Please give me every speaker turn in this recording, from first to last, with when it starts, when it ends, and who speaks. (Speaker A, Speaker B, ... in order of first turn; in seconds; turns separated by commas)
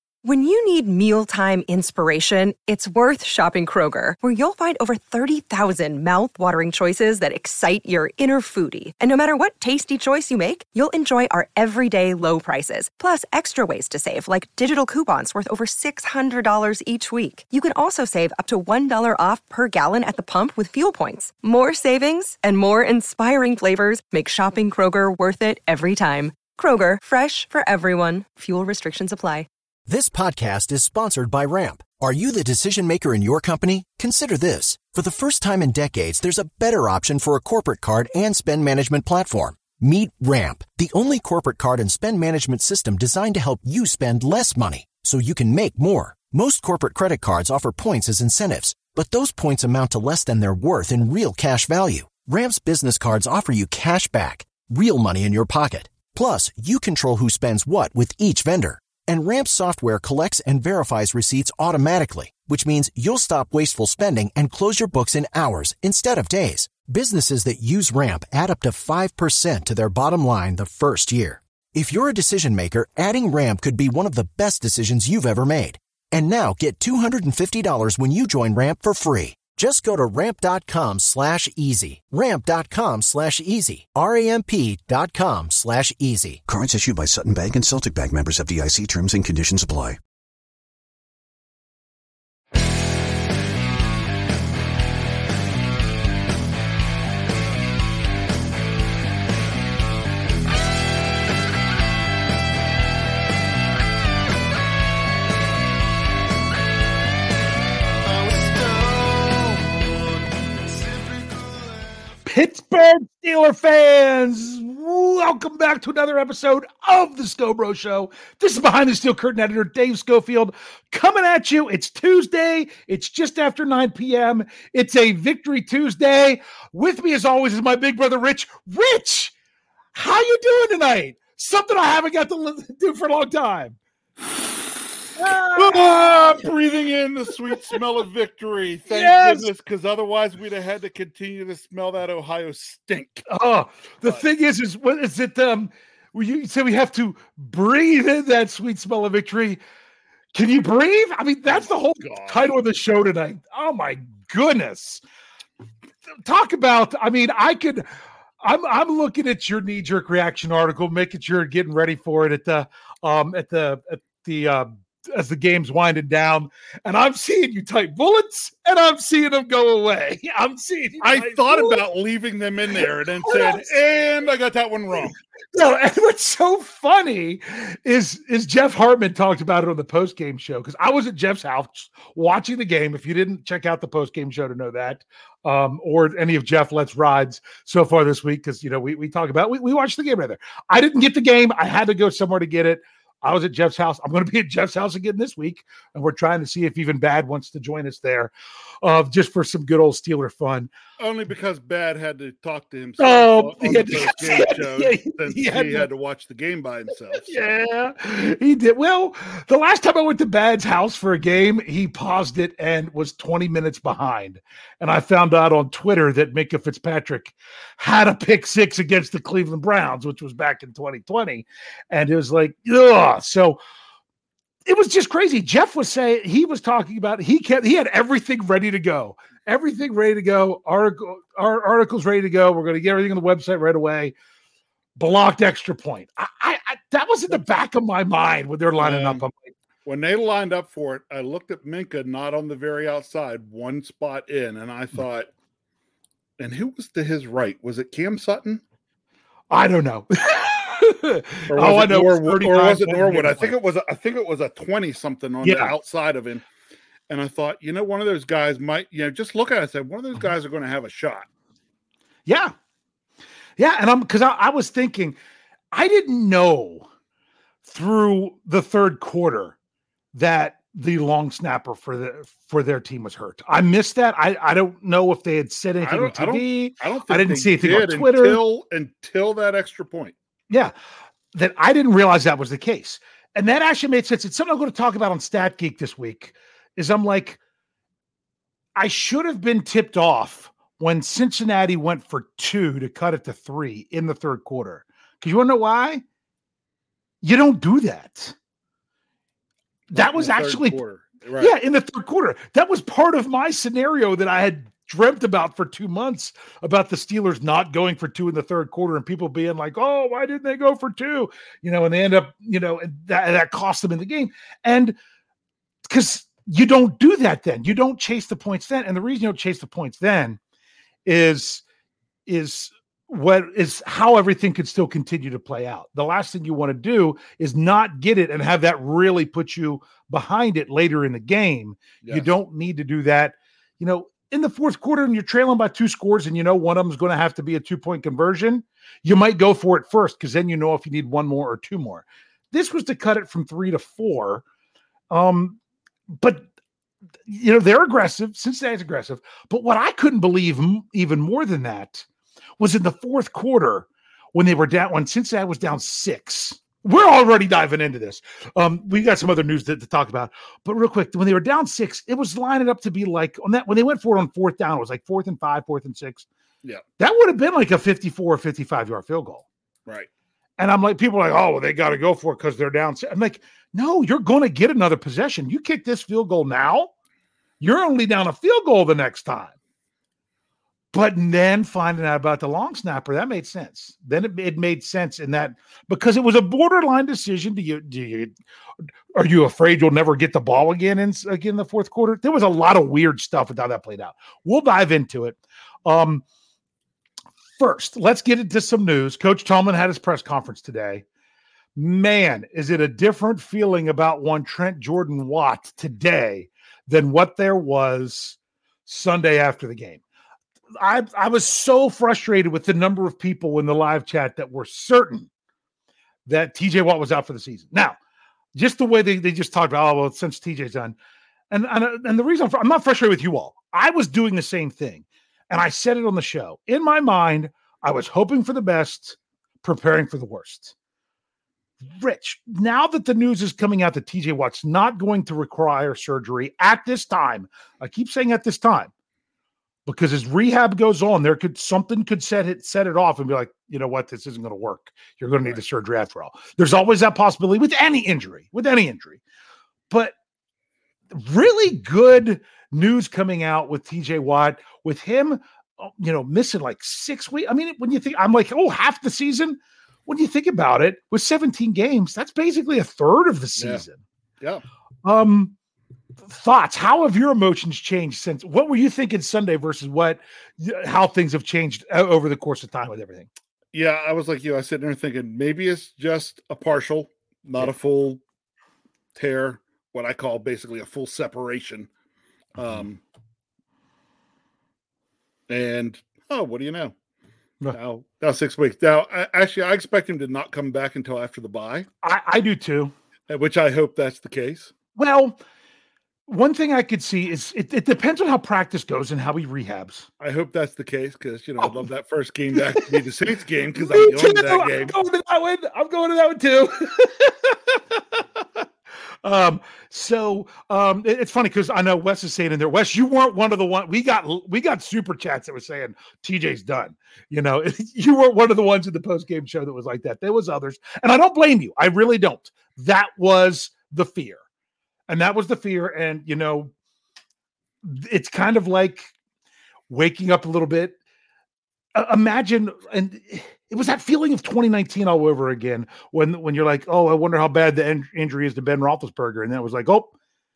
Speaker A: 0.2-29.5, Speaker B: 29.9-86.4, Speaker C: 86.5-90.0, Speaker C: 108.1-111.9, Speaker D: 112.3-129.3, Speaker D: 129.9-133.8, Speaker D: 135.2-136.5, Speaker E: 135.5-143.3, Speaker D: 138.9-139.5, Speaker D: 143.3-149.6, Speaker D: 150.3-155.0, Speaker E: 151.5-152.5, Speaker D: 156.2-157.9, Speaker D: 158.4-171.8, Speaker E: 171.0-175.2, Speaker D: 173.2-173.7, Speaker D: 175.5-200.7, Speaker E: 201.0-207.4, Speaker D: 203.0-205.9, Speaker D: 207.2-223.6, Speaker D: 224.7-234.2, Speaker D: 235.0-239.5, Speaker E: 238.8-239.2, Speaker E: 239.8-245.3, Speaker E: 246.4-248.6, Speaker D: 249.5-253.6, Speaker E: 251.5-256.5, Speaker D: 255.4-255.7, Speaker E: 257.1-261.3, Speaker D: 262.3-262.5, Speaker D: 263.6-265.2, Speaker D: 265.7-266.9, Speaker D: 267.6-269.6, Speaker D: 270.1-278.4, Speaker E: 275.8-280.1, Speaker D: 281.3-287.4, Speaker D: 288.8-296.0, Speaker D: 297.2-298.4, Speaker E: 299.9-301.5, Speaker D: 299.9-300.8, Speaker D: 301.4-315.0, Speaker D: 315.9-320.4, Speaker D: 321.1-321.6, Speaker D: 322.3-344.4, Speaker E: 332.0-332.3, Speaker D: 345.1-345.6, Speaker D: 346.2-346.5, Speaker D: 347.3-352.1, Speaker D: 352.6-366.3, Speaker D: 367.0-369.5, Speaker D: 370.6-376.9, Speaker D: 377.6-379.5, Speaker D: 380.9-388.3, Speaker D: 389.1-396.2, Speaker D: 397.6-401.1, Speaker D: 401.8-410.0, Speaker D: 410.8-415.3, Speaker D: 416.3-418.0, Speaker D: 418.6-421.0, Speaker D: 421.5-430.8, Speaker D: 431.8-438.9, Speaker D: 439.9-449.2, Speaker D: 449.9-450.1, Speaker D: 451.1-464.0, Speaker E: 463.6-463.8, Speaker D: 465.1-465.6, Speaker D: 466.3-473.3, Speaker E: 473.7-478.2, Speaker E: 479.1-481.9, Speaker E: 482.6-483.0, Speaker E: 485.5-486.9, Speaker E: 487.7-491.9, Speaker D: 492.0-492.9, Speaker E: 493.3-494.7, Speaker D: 494.9-495.4, Speaker D: 496.3-500.1, Speaker E: 500.2-504.9, Speaker D: 501.6-501.9, Speaker D: 502.6-502.9, Speaker D: 503.8-508.6, Speaker D: 509.2-524.4, Speaker D: 525.1-526.7, Speaker D: 527.8-529.1, Speaker D: 529.9-531.0, Speaker D: 532.0-540.1